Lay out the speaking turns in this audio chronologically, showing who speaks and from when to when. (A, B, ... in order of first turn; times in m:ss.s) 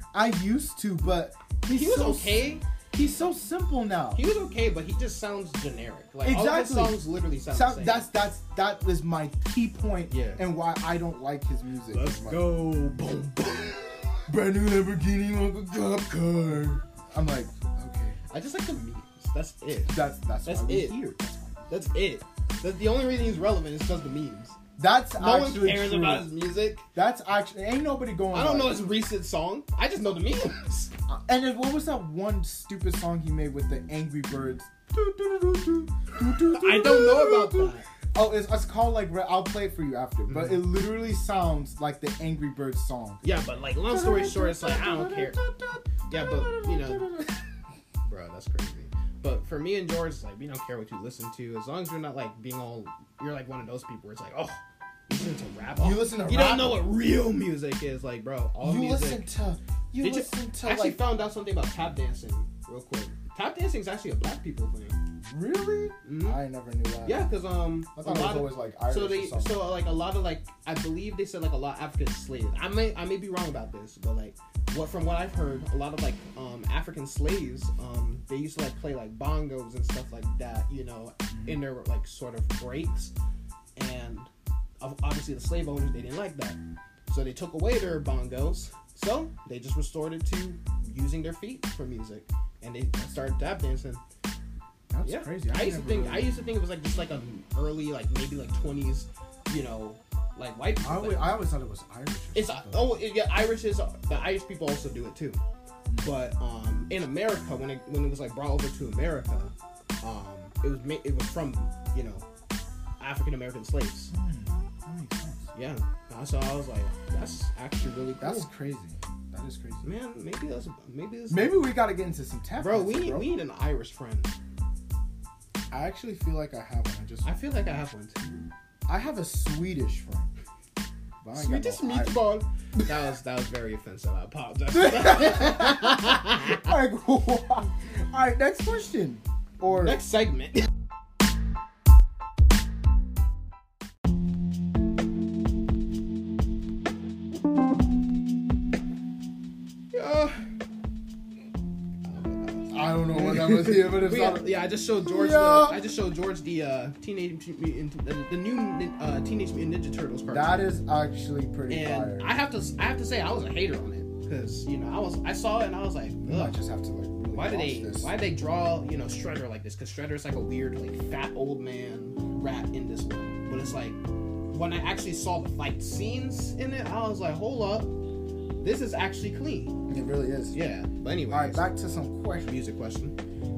0:00.1-0:04.2 A
0:01.7-0:02.6 B
0:04.1-0:08.1 B
0:06.2-0:12.5 A
0:10.1-0:10.4 B
0:11.9-0:14.2 B
0:14.3-0:18.2 A
0:18.3-0:21.0 B
0:19.9-0:21.9 A
0:21.7-0:24.6 B
0:24.8-0:26.3 A
0:25.2-0:26.8 B
0:26.9-0:28.9 A
0:28.3-0:30.9 B
0:31.1-0:43.2 A
0:36.5-0:37.8 B
0:40.3-0:40.6 B
0:43.2-0:45.4 B
0:43.9-0:47.4 A
0:46.1-0:47.2 B
0:48.0-0:59.3 B
0:55.8-0:56.8 A
0:58.6-1:01.0 A
1:00.0-1:05.0 B
1:05.2-1:07.3 A
1:06.0-1:06.4 B
1:07.0-1:23.1 B
1:07.9-1:09.8 A
1:21.3-1:21.6 A
1:23.8-1:34.0 B
1:34.9-1:36.3 A
1:35.0-1:41.4 B
1:40.8-1:43.0 A
1:42.3-1:45.4 B
1:45.9-1:46.1 A
1:46.0-1:52.2 B
1:53.0-1:54.1 B
1:54.1-1:55.5 A
1:55.5-1:58.5 B
1:58.2-1:59.9 A
1:59.8-2:01.7 B
2:01.3-2:03.3 A
2:02.6-2:04.3 B
2:05.7-2:07.3 A
2:07.2-2:08.4 B
2:08.9-2:10.3 A
2:11.2-2:12.2 A
2:11.3-2:16.7 B
2:14.7-2:20.0 A
2:19.7-2:20.7 B
2:29.9-2:30.4 B
2:32.0-2:40.7 B
2:32.7-2:34.5 A
2:35.0-2:35.8 A
2:40.3-2:42.4 A
2:41.7-2:46.6 B
2:46.2-2:48.1 A
2:47.3-2:54.0 B
2:53.5-2:53.8 A
2:54.5-2:57.9 B
2:58.6-2:59.8 B
2:59.9-3:00.6 A
3:00.5-3:01.7 B
3:01.3-3:02.5 A
3:02.4-3:03.2 B